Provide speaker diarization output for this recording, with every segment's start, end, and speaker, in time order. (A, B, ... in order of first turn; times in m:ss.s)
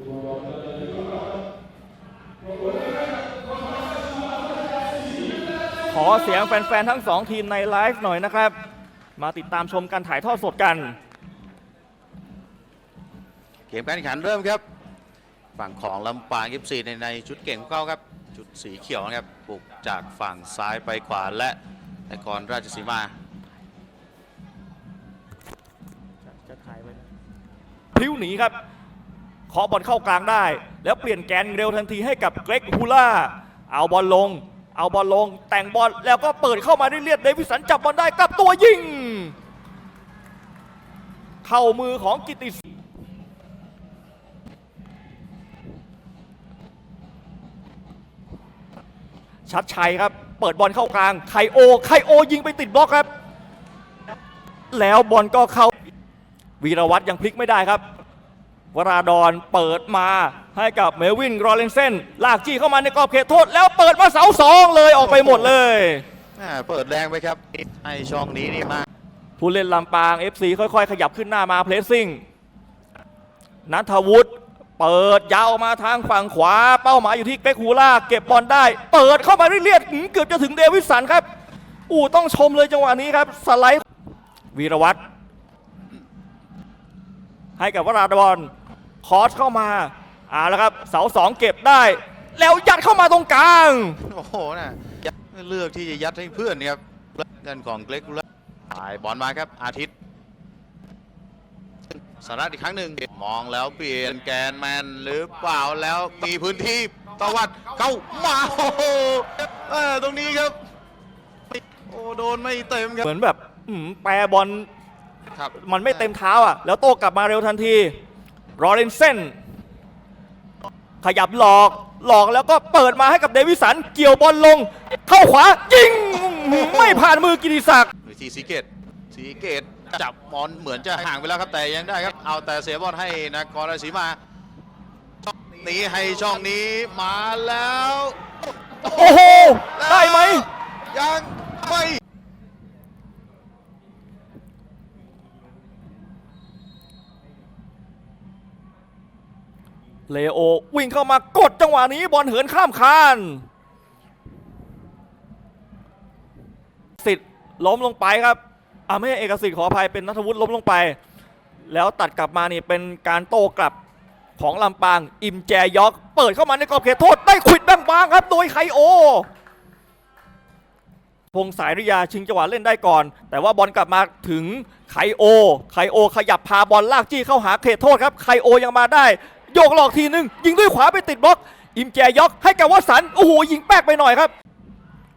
0:05.9-0:08.5 A
0:09.2-0:10.9 A
0:13.7-0:14.6 B
0:15.6-0:21.6 B
0:22.1-0:23.1 B
0:26.2-0:27.0 A
0:27.9-0:28.6 A
0:29.5-0:39.3 A
0:41.4-0:42.6 A
0:49.5-0:53.1 A
0:54.7-0:55.7 A
0:56.6-0:57.8 A
0:58.7-1:06.0 A
1:05.1-1:05.4 B
1:06.4-1:08.9 B
1:09.4-1:12.2 A
1:13.6-1:21.2 A
1:21.9-1:23.8 A
1:24.5-1:25.0 A
1:27.6-1:28.5 A
1:29.0-1:34.0 A
1:34.0-1:39.9 B
1:42.2-1:50.5 B
1:51.5-1:53.0 B
1:53.0-1:54.7 A
1:55.5-1:57.9 A
1:58.6-1:59.3 A
2:01.0-2:07.9 A
2:08.0-2:14.2 B
2:15.2-2:18.2 B
2:18.8-2:20.5 A
2:18.8-2:22.0 B
2:30.1-2:33.4 A
2:37.0-2:41.0 A
2:41.7-2:43.8 A
2:44.4-2:49.3 A
2:51.3-3:04.3 A